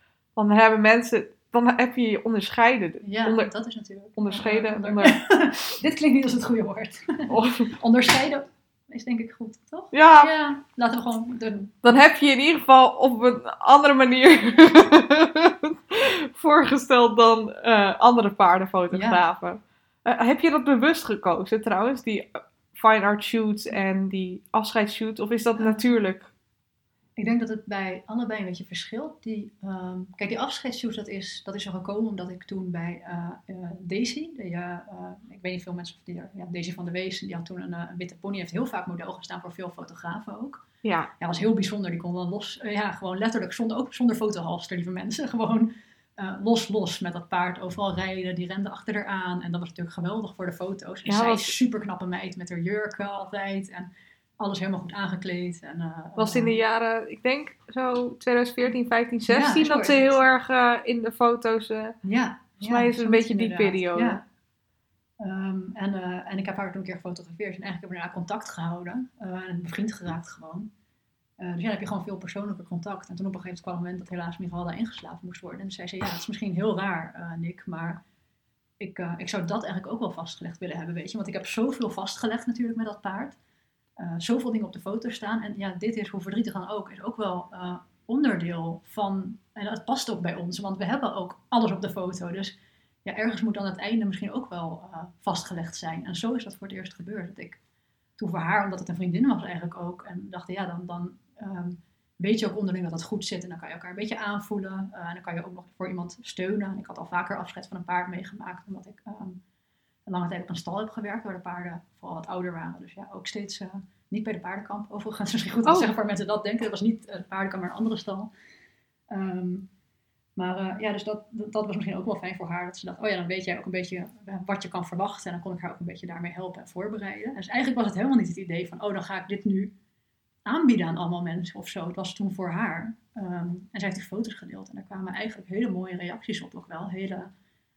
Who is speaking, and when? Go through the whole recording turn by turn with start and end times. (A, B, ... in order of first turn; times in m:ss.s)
0:00.4-0:03.5 A
0:03.0-0:11.8 B
0:04.2-0:05.2 A
0:07.3-0:07.7 A
0:09.9-0:10.3 A
0:11.8-0:26.3 A
0:18.9-0:19.2 B
0:25.6-0:25.9 B
0:27.2-0:40.6 B
0:40.8-0:41.1 A
0:41.2-0:56.6 B
0:51.1-0:51.6 A
0:56.2-1:02.0 A
0:59.3-1:00.2 B
1:02.0-1:04.2 B
1:02.6-1:04.2 A
1:05.2-1:10.7 B
1:11.4-1:18.0 B
1:18.8-1:23.4 B
1:24.0-1:37.6 B
1:38.2-1:49.4 B
1:50.1-1:58.3 B
1:59.1-1:59.7 B
2:00.4-2:09.7 B
2:10.5-2:17.3 B